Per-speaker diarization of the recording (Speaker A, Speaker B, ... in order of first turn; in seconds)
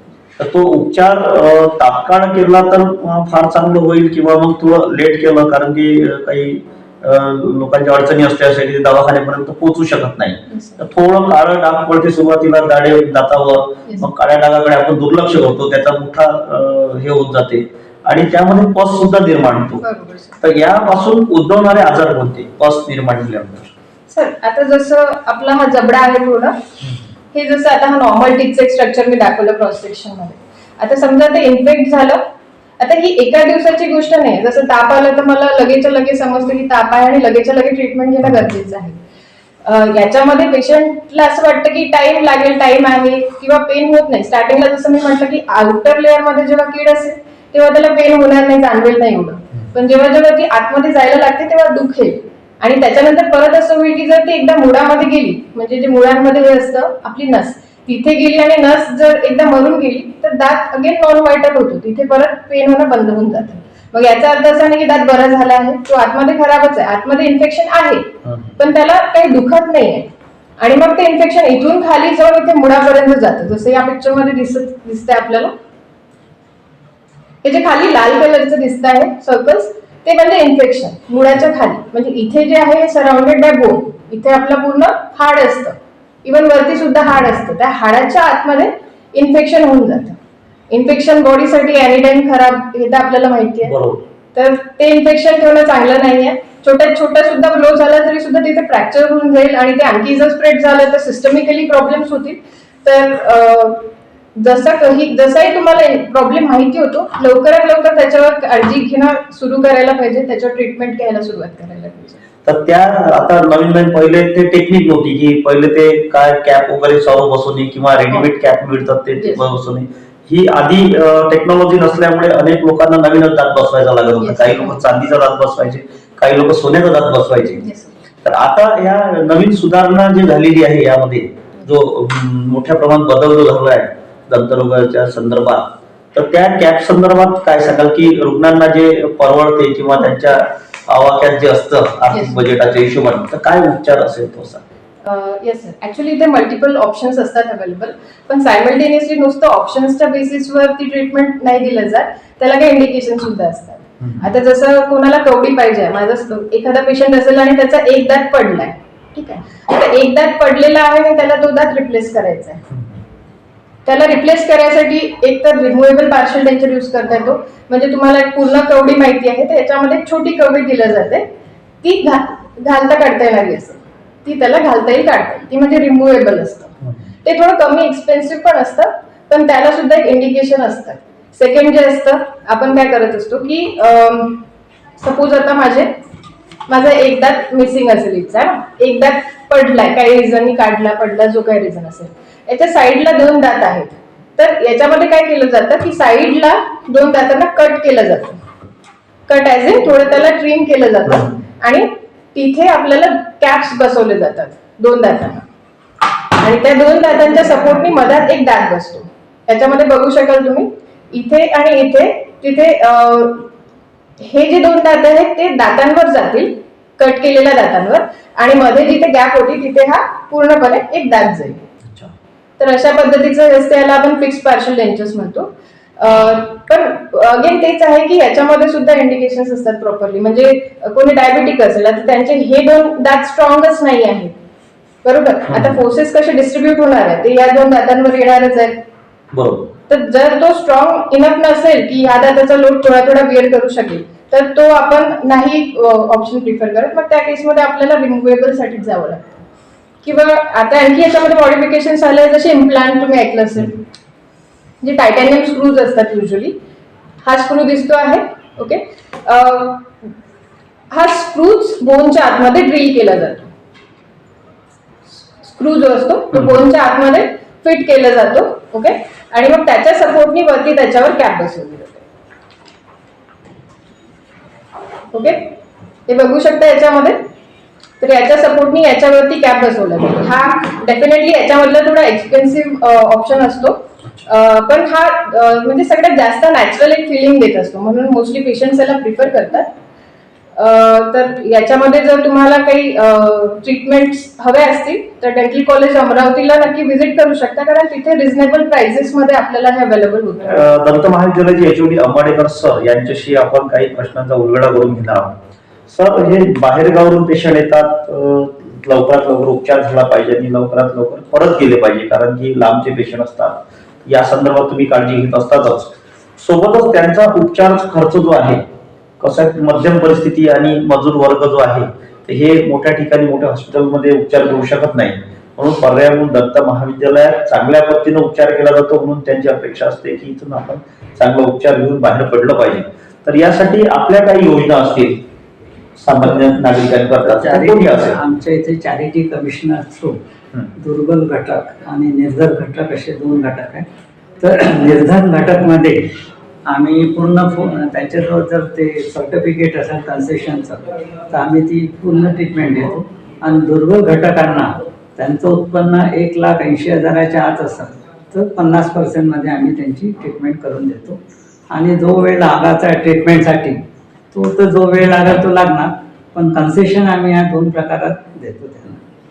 Speaker A: 0.4-19.8, 20.4-23.7, 68.2-68.5, 93.6-94.0, 112.5-127.6, 128.2-144.6, 162.7-163.0, 221.8-222.1, 235.5-235.8, 239.3-239.7, 300.5-305.3, 305.9-318.6, 319.2-335.2, 336.0-338.2
Speaker B: 10.5-10.9, 19.8-20.4, 24.1-26.6, 27.3-32.2, 32.8-39.0, 39.6-75.5, 77.4-90.2, 90.7-93.8, 94.3-112.2, 119.2-119.5, 124.2-124.8, 127.6-128.0, 142.1-142.5, 145.0-162.6, 163.9-171.3, 171.8-184.5, 185.0-186.0, 186.7-198.4, 199.3-205.5, 206.4-213.5, 214.2-221.6, 222.6-234.3, 235.0-238.8, 239.9-249.4, 250.0-253.8, 254.8-256.6, 257.2-259.9, 260.9-263.5, 265.2-272.1, 275.1-277.3, 278.0-289.7, 290.6-300.6
Speaker C: 337.2-340.2, 340.8-343.9, 344.4-346.1, 346.7-361.2, 361.7-363.8, 364.3-369.0